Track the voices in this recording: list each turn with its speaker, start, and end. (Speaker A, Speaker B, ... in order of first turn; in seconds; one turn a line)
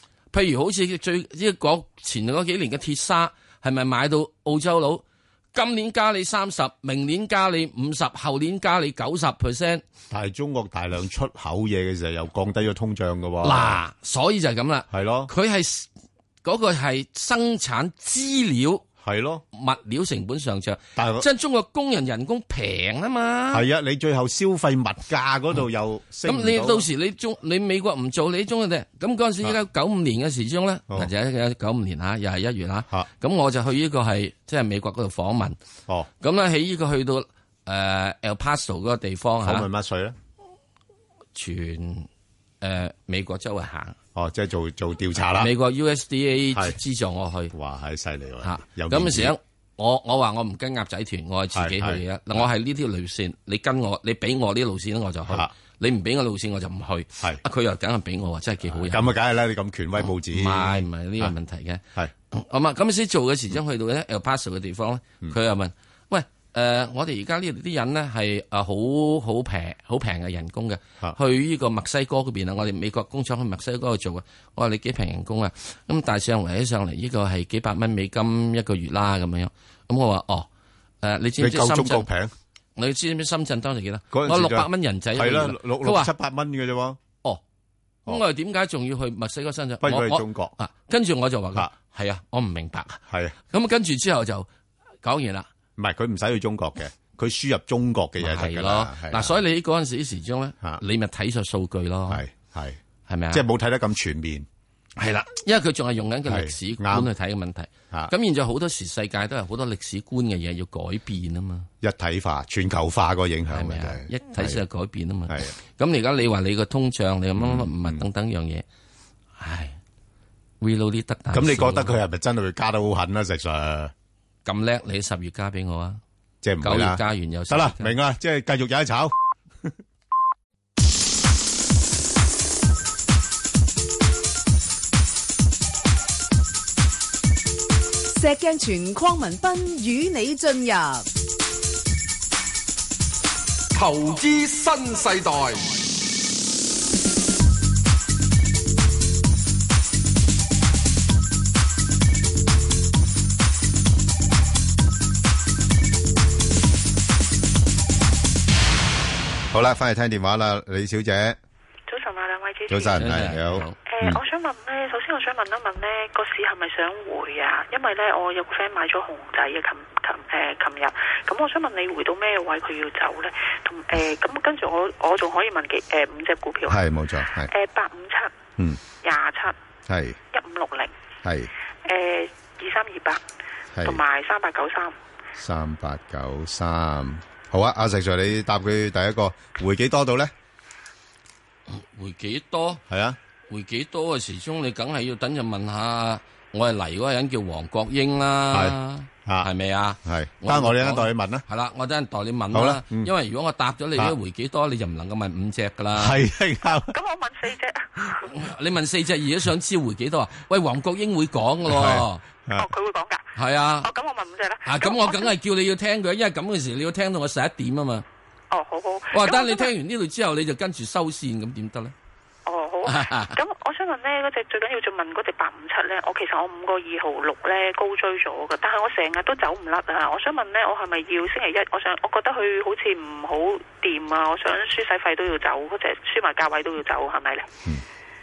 Speaker A: 0.3-9.8
Speaker B: 10.1-13.8
Speaker A: 13.4-15.9
Speaker B: 14.9-15.3
Speaker A: 16.4-18.9
Speaker B: 19.0-19.4
Speaker A: 19.5-23.6
Speaker B: 21.0-21.3
Speaker B: 23.5-26.9
Speaker A: 26.2-35.6
Speaker A: 36.2-39.7
Speaker B: 39.4-40.2
Speaker A: 41.4-42.1
Speaker A: 42.6-44.0
Speaker B: 44.1-45.5
Speaker A: 45.4-47.5
Speaker B: 47.5-49.4
Speaker A: 48.4-59.1
Speaker B: 51.5-52.0
Speaker B: 58.7-61.3
Speaker A: 60.3-80.5
Speaker A: 81.0-82.1
Speaker B: 81.4-82.3
Speaker A: 82.8-86.1
Speaker B: 84.1-87.0
Speaker A: 88.1-94.5
Speaker B: 89.8-90.5
Speaker B: 93.1-93.3
Speaker A: 95.0-95.5
Speaker B: 95.8-99.4
Speaker A: 98.2-102.2
Speaker B: 102.1-102.8
Speaker A: 103.1-103.4
Speaker B: 103.3-104.5
Speaker A: 105.0-111.7
Speaker B: 106.3-107.1
Speaker B: 111.8-114.6
Speaker A: 113.5-118.7
Speaker B: 115.3-115.5
Speaker B: 117.4-118.0
Speaker A: 119.4-119.8
Speaker A: 120.6-122.0
Speaker B: 121.3-123.9
Speaker A: 124.5-126.0
Speaker B: 126.4-129.1
Speaker A: 126.6-128.0
Speaker C: 138.2-141.1
Speaker D: 143.7-145.8
Speaker B: 159.5-161.4
Speaker E: 161.9-163.1
Speaker B: 162.7-164.2
Speaker A: 163.0-163.8
Speaker E: 163.9-176.8
Speaker B: 176.7-177.5
Speaker E: 177.5-178.3
Speaker E: 179.0-179.6
Speaker B: 179.9-180.2
Speaker E: 180.3-180.9
Speaker B: 181.2-181.5
Speaker E: 181.8-183.2
Speaker B: 183.7-184.0
Speaker E: 183.8-184.9
Speaker B: 185.3-190.3
Speaker A: 191.7-192.8
Speaker B: 192.9-193.2
Speaker A: 193.5-206.2
Speaker B: 200.0-201.4
Speaker B: 202.5-203.1
Speaker B: 205.9-206.9
Speaker E: 206.8-208.3
Speaker A: 208.2-212.2
Speaker B: 211.7-212.7
Speaker E: 212.6-215.3
Speaker A: 213.4-213.9
Speaker A: 214.7-218.1
Speaker E: 218.5-219.7
Speaker A: 219.1-221.9
Speaker E: 222.5-237.5
Speaker A: 222.9-223.4